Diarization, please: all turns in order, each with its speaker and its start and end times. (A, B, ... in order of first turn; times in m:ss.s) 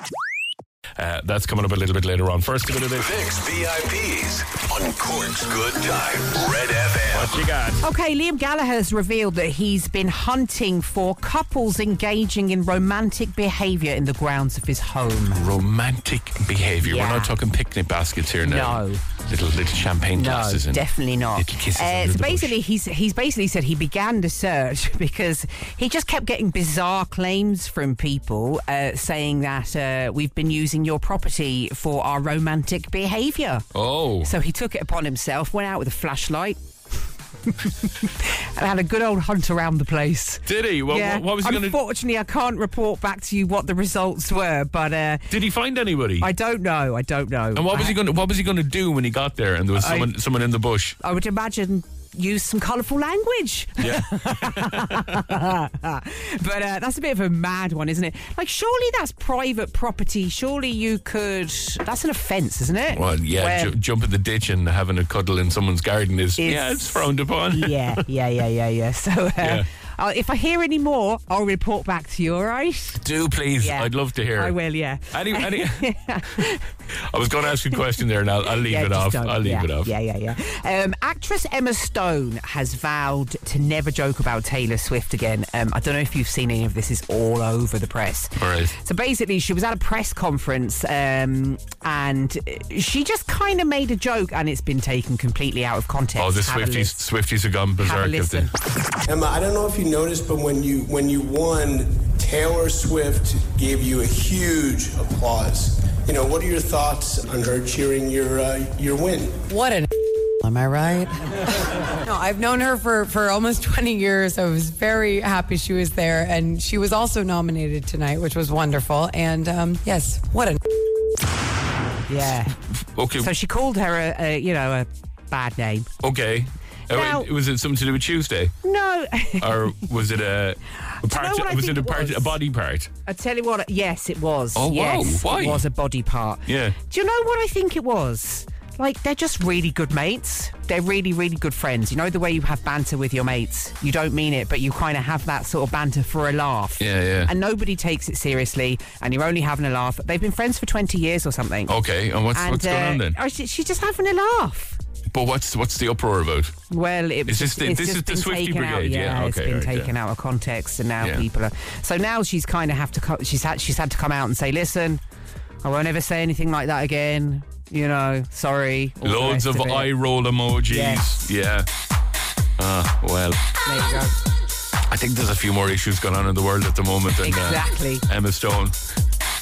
0:01.0-0:03.1 A
0:03.0-0:07.4 B
0:07.1-0:07.8 A
0:07.8-0:15.4 C
0:15.4-0:22.6 A
0:16.8-0:17.3 C
0:18.4-0:19.0 C
0:20.2-0:36.6 C
0:33.7-0:34.3 A
0:37.5-0:45.3 C
0:40.5-0:41.8 A
0:45.3-0:46.3 A
0:46.2-0:48.0 C
0:47.5-0:51.0 A
0:49.8-0:50.1 C
0:51.0-1:03.8 C
0:53.8-0:55.4 A
1:02.9-1:08.0 A
1:06.4-1:13.0 C
1:09.4-1:09.7 A
1:13.0-1:14.6 A
1:13.6-1:16.7 C
1:15.1-1:19.9 A
1:18.6-1:37.0 C
1:28.4-1:28.8 A
1:36.2-1:38.5 A
1:37.8-1:38.5 C
1:39.0-1:49.5 D
1:49.5-1:49.9 E
1:50.4-1:51.4 E
1:52.0-2:00.6 E
2:02.1-2:02.6 C
2:02.8-2:03.3 A
2:03.2-2:05.9 C
2:06.0-2:08.6 A
2:06.9-2:07.3 C
2:08.6-2:09.6 C
2:09.4-2:12.9 A
2:10.9-2:12.4 C
2:13.1-2:31.8 C
2:14.6-2:15.6 A
2:16.5-2:16.8 A
2:26.8-2:27.3 A
2:31.7-2:33.2 A
2:32.3-2:34.8 C
2:35.1-2:36.6 A
2:36.7-2:45.0 C
2:37.3-2:39.9 A
2:41.0-2:41.3 A
2:45.6-2:49.9 C
2:49.0-2:51.7 A
2:50.7-2:51.2 C
2:52.6-2:53.4 A
2:53.6-2:54.1 C
2:54.9-2:58.8 A
2:57.2-2:58.0 C